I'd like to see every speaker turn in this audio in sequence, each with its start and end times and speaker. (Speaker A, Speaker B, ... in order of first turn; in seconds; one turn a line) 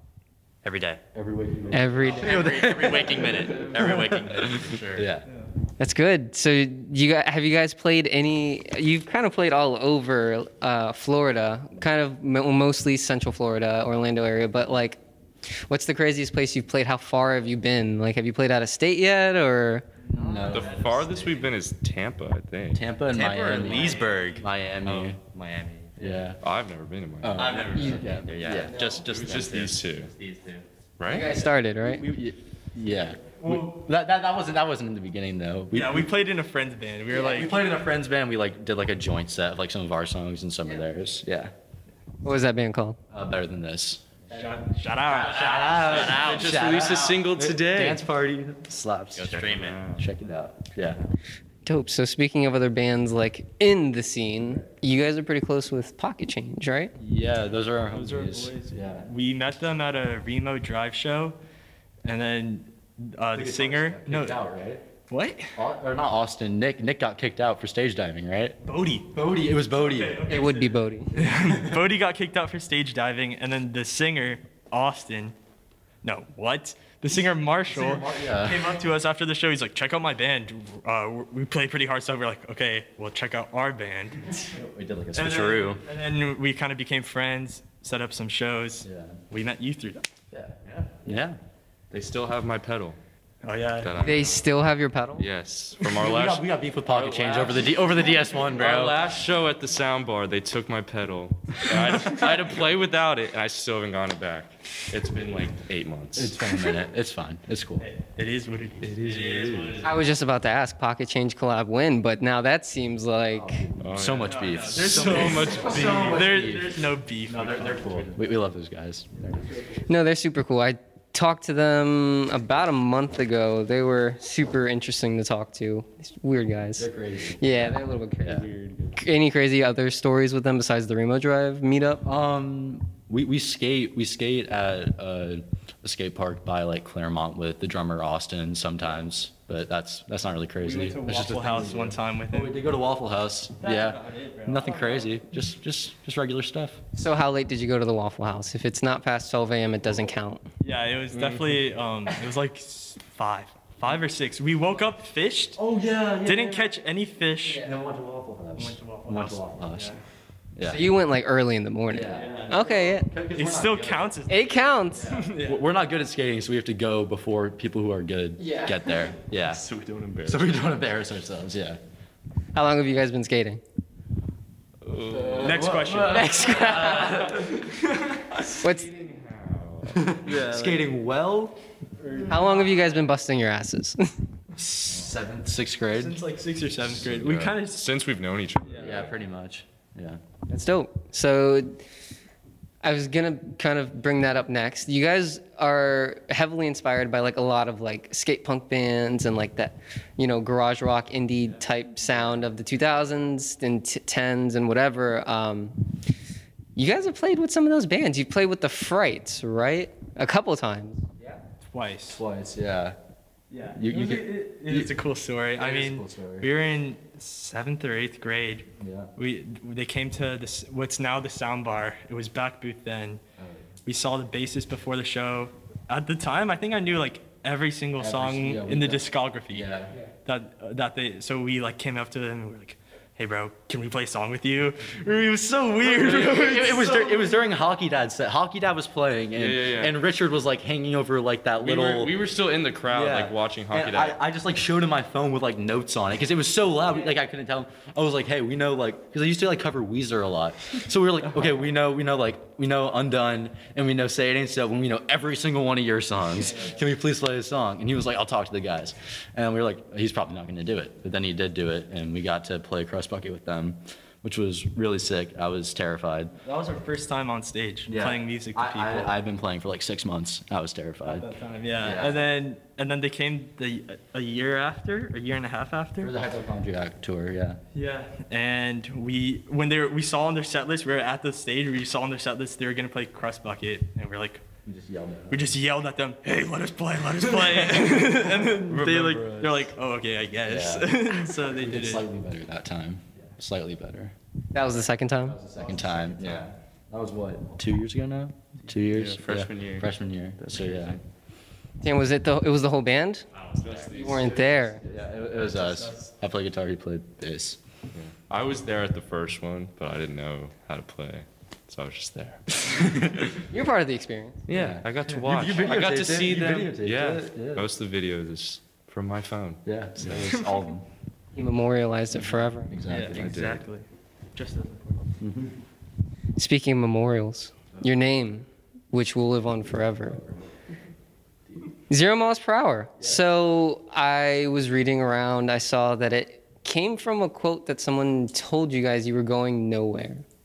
Speaker A: 0.6-1.0
Speaker B: 1.1-5.3
Speaker C: 1.7-2.4
Speaker A: 2.0-5.1
Speaker C: 5.8-19.9
Speaker A: 20.0-21.5
Speaker B: 20.1-21.0
Speaker D: 20.5-22.9
Speaker B: 22.7-25.2
Speaker A: 23.1-26.3
Speaker E: 23.3-24.4
Speaker B: 26.0-26.4
Speaker D: 26.4-27.7
Speaker B: 27.2-28.9
Speaker A: 27.3-30.7
Speaker C: 27.7-28.1
Speaker D: 28.9-30.1
Speaker D: 31.0-31.4
Speaker C: 31.1-32.1
Speaker B: 31.3-36.1
Speaker E: 33.4-33.7
Speaker E: 35.7-37.6
Speaker B: 37.1-41.5
Speaker C: 42.2-43.0
Speaker B: 43.1-44.1
Speaker E: 44.3-45.8
Speaker A: 45.1-47.1
Speaker B: 45.2-51.1
Speaker D: 45.9-48.0
Speaker A: 49.1-49.8
Speaker D: 49.5-50.0
Speaker C: 51.7-56.9
Speaker B: 57.0-59.1
Speaker E: 57.9-61.4
Speaker E: 62.0-64.4
Speaker B: 63.3-64.8
Speaker E: 65.1-65.5
Speaker B: 65.5-68.6
Speaker E: 68.6-75.3
Speaker B: 69.1-70.4
Speaker C: 70.3-71.3
Speaker B: 71.4-71.8
Speaker E: 76.0-84.5
Speaker B: 77.7-78.8
Speaker B: 84.5-85.8
Speaker E: 85.1-90.1
Speaker B: 88.8-89.2
Speaker B: 90.3-91.4
Speaker A: 90.7-91.0
Speaker D: 91.9-93.0
Speaker E: 93.4-94.0
Speaker D: 93.8-94.5
Speaker C: 94.0-95.3
Speaker D: 95.2-97.8
Speaker B: 95.9-99.0
Speaker D: 98.4-106.5
Speaker B: 106.2-107.9
Speaker E: 107.8-109.1
Speaker D: 108.8-109.8
Speaker A: 109.0-110.0
Speaker B: 109.2-109.8
Speaker C: 109.8-113.6
Speaker B: 113.3-119.5
Speaker D: 113.8-116.2
Speaker E: 114.2-118.1
Speaker C: 119.8-132.0
Speaker B: 126.8-128.5
Speaker D: 128.4-129.0
Speaker B: 132.0-146.8
Speaker E: 140.6-142.7
Speaker E: 143.6-145.2
Speaker C: 146.9-150.5
Speaker E: 150.6-155.6
Speaker D: 151.1-151.6
Speaker B: 155.6-156.7
Speaker E: 156.2-157.7
Speaker B: 157.5-160.0
Speaker E: 158.6-160.0
Speaker B: 160.6-160.9
Speaker C: 160.6-163.1
Speaker B: 161.9-164.2
Speaker E: 162.1-162.7
Speaker E: 163.3-164.5
Speaker C: 164.3-165.3
Speaker B: 164.9-169.7
Speaker E: 165.1-165.6
Speaker C: 168.4-169.1
Speaker D: 169.4-170.6
Speaker B: 170.2-171.8
Speaker C: 172.5-173.6
Speaker D: 174.8-175.7
Speaker B: 175.2-177.6
Speaker E: 175.3-176.7
Speaker C: 176.0-177.3
Speaker D: 176.5-180.1
Speaker E: 177.6-178.0
Speaker C: 178.5-178.9
Speaker B: 179.9-181.6
Speaker E: 180.2-180.8
Speaker E: 182.0-183.0
Speaker C: 182.3-184.1
Speaker B: 184.6-186.2
Speaker E: 185.9-187.9
Speaker D: 186.9-189.1
Speaker E: 188.6-189.1
Speaker B: 188.8-190.2
Speaker C: 190.5-191.8
Speaker C: 192.8-205.8
Speaker C: 206.8-211.0
Speaker E: 211.2-212.2
Speaker B: 212.1-213.0
Speaker E: 213.5-223.2
Speaker B: 213.7-214.9
Speaker B: 215.6-216.5
Speaker B: 218.8-219.1
Speaker B: 223.4-223.7
Speaker E: 223.9-229.7
Speaker B: 228.0-229.9
Speaker E: 230.2-237.3
Speaker B: 235.7-242.2
Speaker D: 239.4-239.9
Speaker D: 241.6-244.2
Speaker B: 242.9-266.4
Speaker E: 266.4-269.2
Speaker B: 267.9-271.3
Speaker E: 271.0-276.1
Speaker B: 271.8-272.2
Speaker B: 276.0-277.6
Speaker E: 277.7-284.4
Speaker B: 284.6-285.4
Speaker E: 285.3-292.1
Speaker D: 288.6-289.7
Speaker B: 290.5-294.1
Speaker C: 294.5-295.4
Speaker B: 295.3-301.0
Speaker E: 295.6-296.2
Speaker A: 296.2-296.5
Speaker D: 298.9-301.0
Speaker C: 301.8-303.3
Speaker A: 303.3-304.1
Speaker D: 303.6-304.6
Speaker C: 303.9-304.8
Speaker B: 304.7-307.6
Speaker E: 305.3-306.1
Speaker D: 307.9-313.4
Speaker B: 312.8-313.1
Speaker C: 313.5-314.4
Speaker D: 314.5-320.3
Speaker B: 314.5-317.7
Speaker B: 319.6-320.9
Speaker C: 321.4-322.7
Speaker B: 322.7-323.4
Speaker E: 322.9-325.1
Speaker D: 323.1-323.6
Speaker B: 325.2-325.6
Speaker C: 326.4-330.2
Speaker B: 330.1-330.4
Speaker C: 331.9-340.2